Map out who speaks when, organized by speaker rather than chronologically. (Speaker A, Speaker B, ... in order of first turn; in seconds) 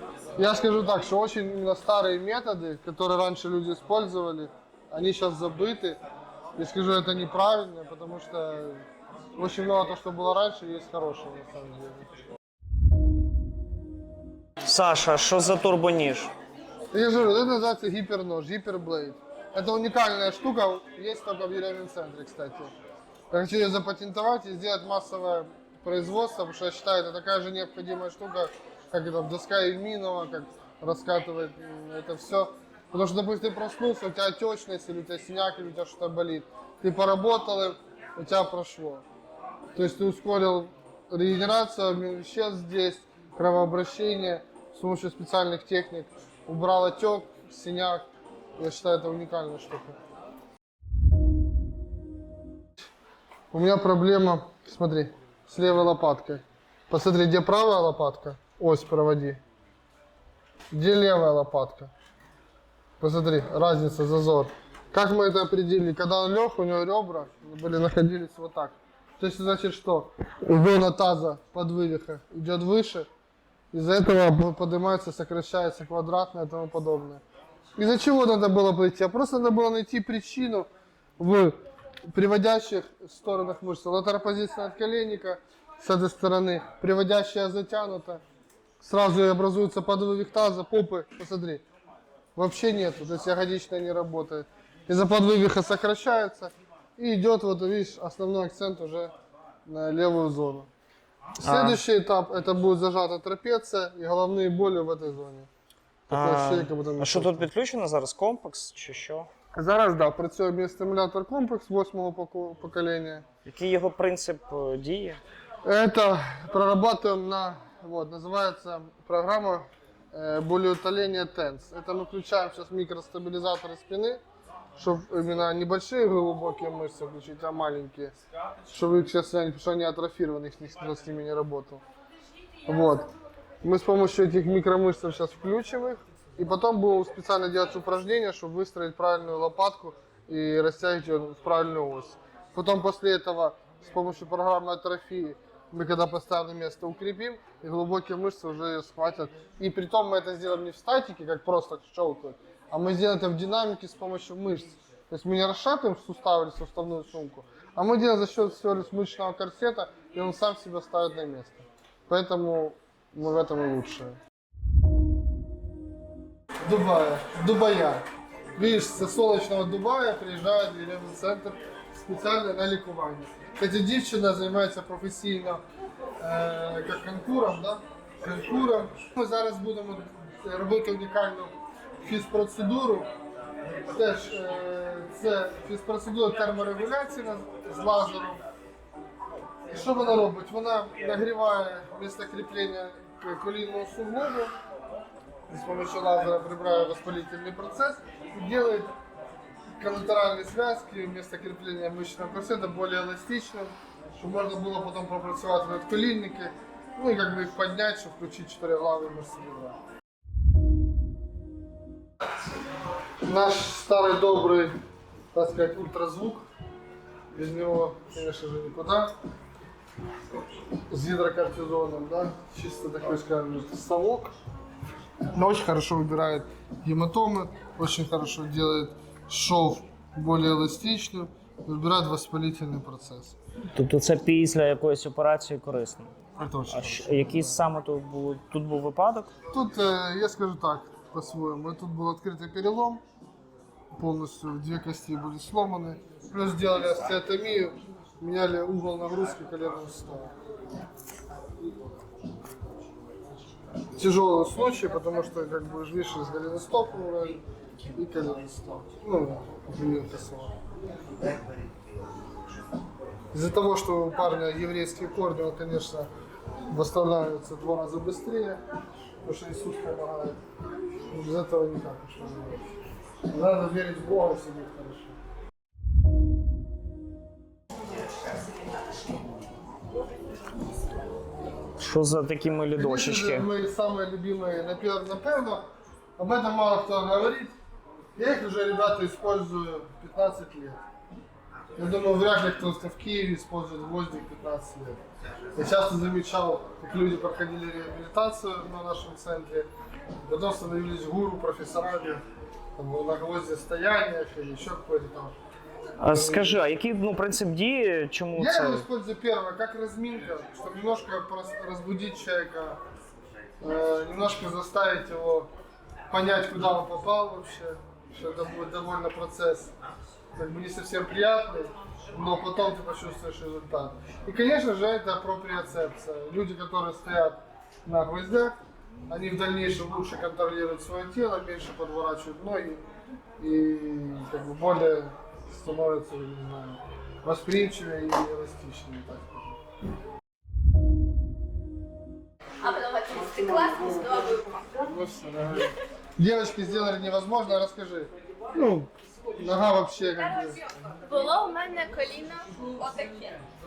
Speaker A: 0.4-6.0, 6.6-12.1, 16.9-22.7, 23.3-39.0, 39.7-50.0, 53.5-59.4, 60.7-61.9, 63.0-73.1, 73.7-77.2, 77.8-88.2, 88.8-91.6, 92.3-99.1, 99.7-100.7, 101.4-105.5, 106.1-107.5, 109.5-113.2, 115.6-124.2, 124.8-128.2, 128.7-131.8, 132.7-133.1, 133.6-164.2, 166.6-175.6, 176.2-183.1, 183.7-188.4, 189.7-194.5, 195.5-198.9, 199.8-209.8, 213.2-214.8, 215.3-216.4, 217.3-219.1, 220.9-224.3, 225.3-233.3, 236.4-237.5, 239.5-243.0, 243.9-250.3, 253.9-257.4, 257.9-260.5, 263.3-266.1, 266.7-268.6, 269.2-270.4, 271.1-272.7, 273.3-275.1, 282.8-287.6, 288.1-290.8, 291.8-295.0, 295.6-299.7, 300.2-302.2, 302.8-305.3, 306.1-306.6, 308.3-312.8, 313.6-315.5, 316.1-319.7, 320.4-328.6, 329.1-332.9, 333.4-339.5, 344.8-350.6
Speaker B: 14.6-16.3, 101.4-101.8, 106.1-109.3, 113.4-115.2, 233.7-239.3, 281.8-283.5, 306.0-308.9
Speaker C: 342.6-344.8, 351.0-353.4